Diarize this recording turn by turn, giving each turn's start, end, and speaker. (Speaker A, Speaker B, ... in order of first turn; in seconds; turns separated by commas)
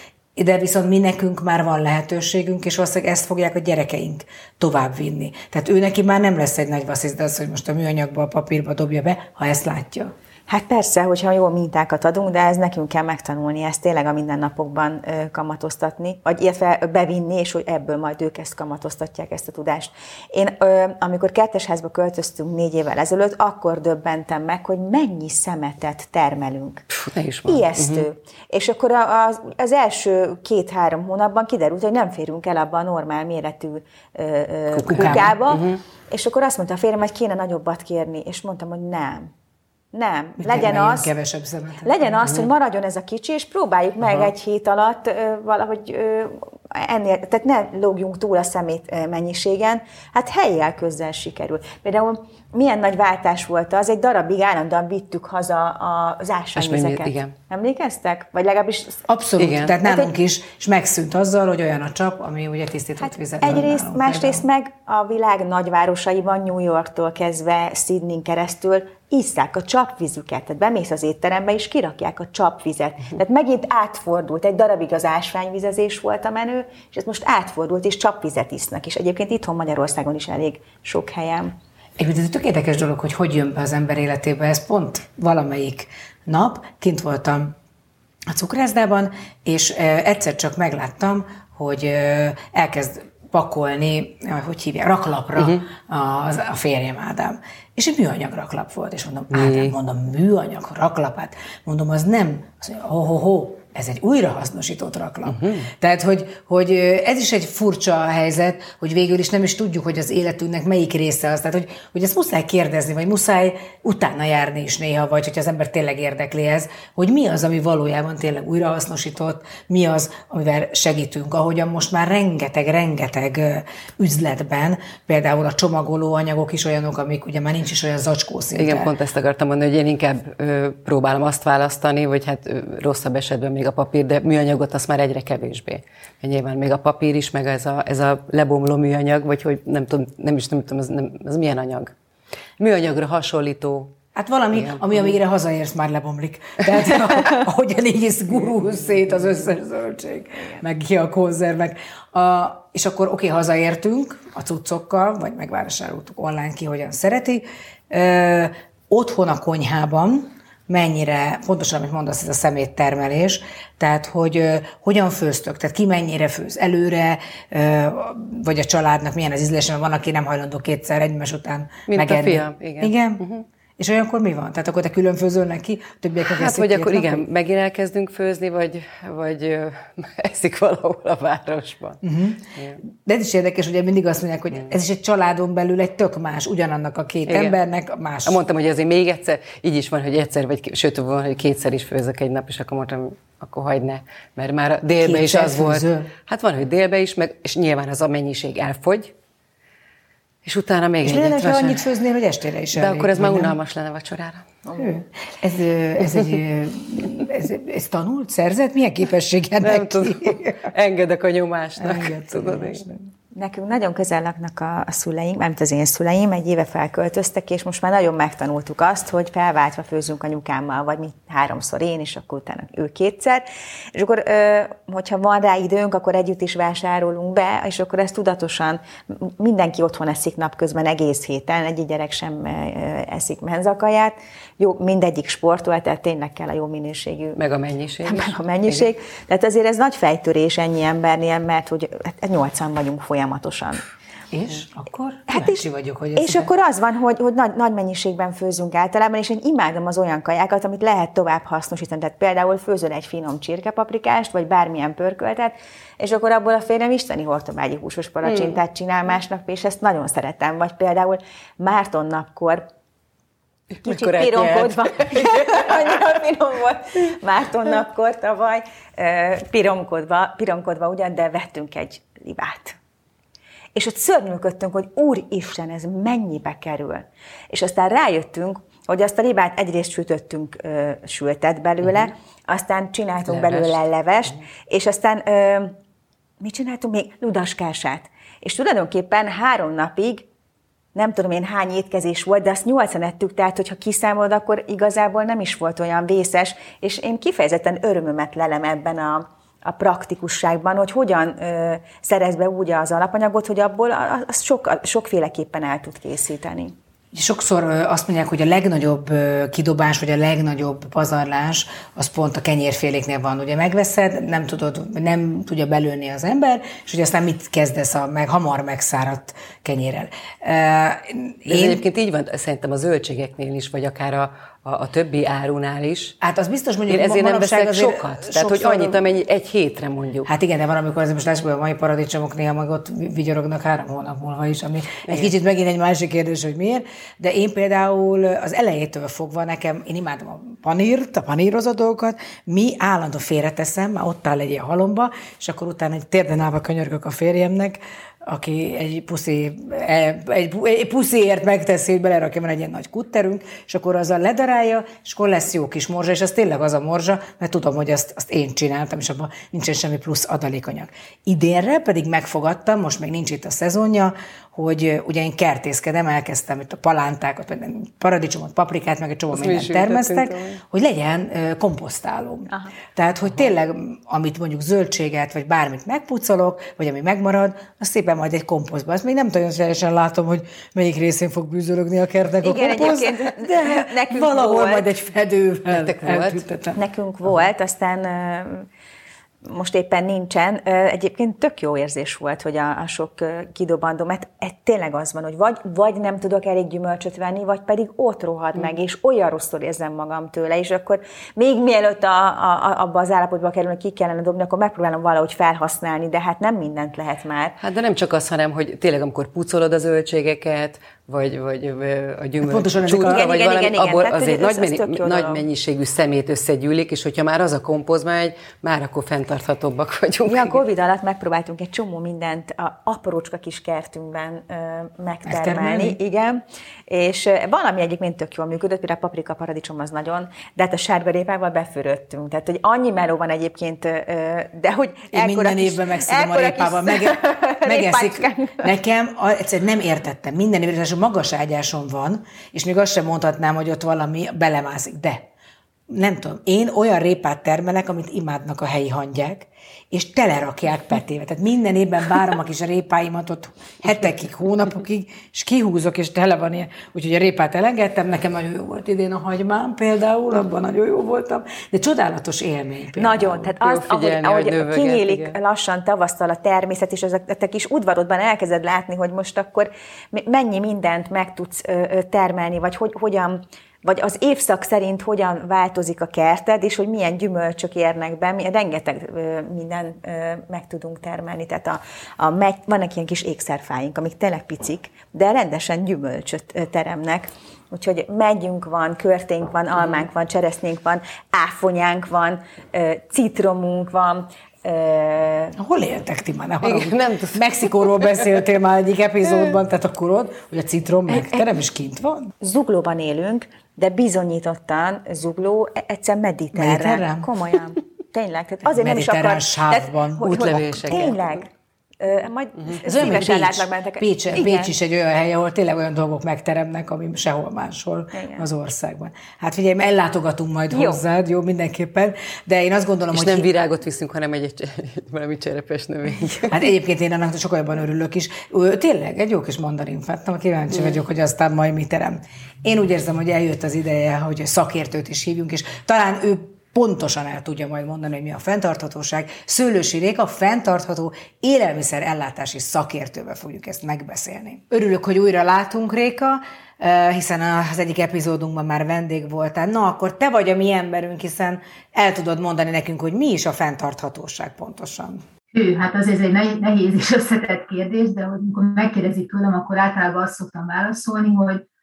Speaker A: 0.3-10.1, Speaker B: 10.5-26.8, Speaker C: 26.9-28.0, Speaker B: 27.4-39.3, Speaker A: 34.8-35.3, Speaker C: 34.8-35.8, Speaker B: 39.9-41.1, Speaker A: 40.4-42.2, Speaker B: 41.8-59.0, Speaker C: 56.5-57.3, Speaker A: 59.1-64.5, Speaker C: 59.4-59.7, Speaker B: 59.8-60.1, Speaker B: 63.1-81.5, Speaker A: 82.0-87.5, Speaker A: 88.3-128.9, Speaker C: 95.4-95.6, Speaker C: 99.3-99.7, Speaker C: 105.2-105.7, Speaker C: 128.5-141.9, Speaker C: 142.6-143.9, Speaker A: 144.1-173.2, Speaker C: 144.5-145.1, Speaker C: 171.9-173.4, Speaker A: 173.8-177.2, Speaker C: 176.3-182.0, Speaker A: 182.0-188.4, Speaker C: 187.3-187.6, Speaker C: 188.2-199.1, Speaker A: 195.0-196.1, Speaker C: 200.4-201.8, Speaker A: 201.0-203.5, Speaker C: 202.7-204.5, Speaker B: 204.7-205.0, Speaker A: 204.8-210.7, Speaker C: 209.6-212.8, Speaker A: 211.8-213.0, Speaker B: 213.3-237.4, Speaker C: 237.3-238.8, Speaker B: 238.0-243.8, Speaker A: 244.3-246.5, Speaker B: 245.3-245.6, Speaker B: 246.2-262.6, Speaker C: 258.2-258.5, Speaker C: 263.7-266.0, Speaker B: 263.8-272.8, Speaker B: 273.7-285.8, Speaker C: 283.3-283.8, Speaker B: 286.4-290.3, Speaker B: 290.9-306.8, Speaker A: 307.1-321.8, Speaker C: 321.4-326.1, Speaker A: 326.2-329.0, Speaker C: 326.9-330.3, Speaker A: 330.2-386.8, Speaker C: 369.3-370.6, Speaker B: 382.4-384.9, Speaker C: 385.7-386.4, Speaker B: 386.7-388.7, Speaker B: 389.4-407.6, Speaker C: 407.6-420.6, Speaker A: 412.4-413.3, Speaker B: 413.0-415.4, Speaker B: 420.2-438.7, Speaker A: 425.2-426.0, Speaker A: 435.1-445.2, Speaker A: 445.9-463.5, Speaker B: 462.9-495.6, Speaker C: 463.6-465.4, Speaker A: 495.6-502.3, Speaker C: 496.6-497.4, Speaker B: 501.1-501.5, Speaker B: 502.4-514.7, Speaker A: 506.5-507.3, Speaker A: 508.8-511.1, Speaker C: 510.2-511.2, Speaker A: 512.8-523.5, Speaker C: 512.9-513.2, Speaker B: 518.1-518.5, Speaker B: 520.7-521.0, Speaker C: 523.1-526.6, Speaker A: 526.5-555.2, Speaker D: 555.5-561.6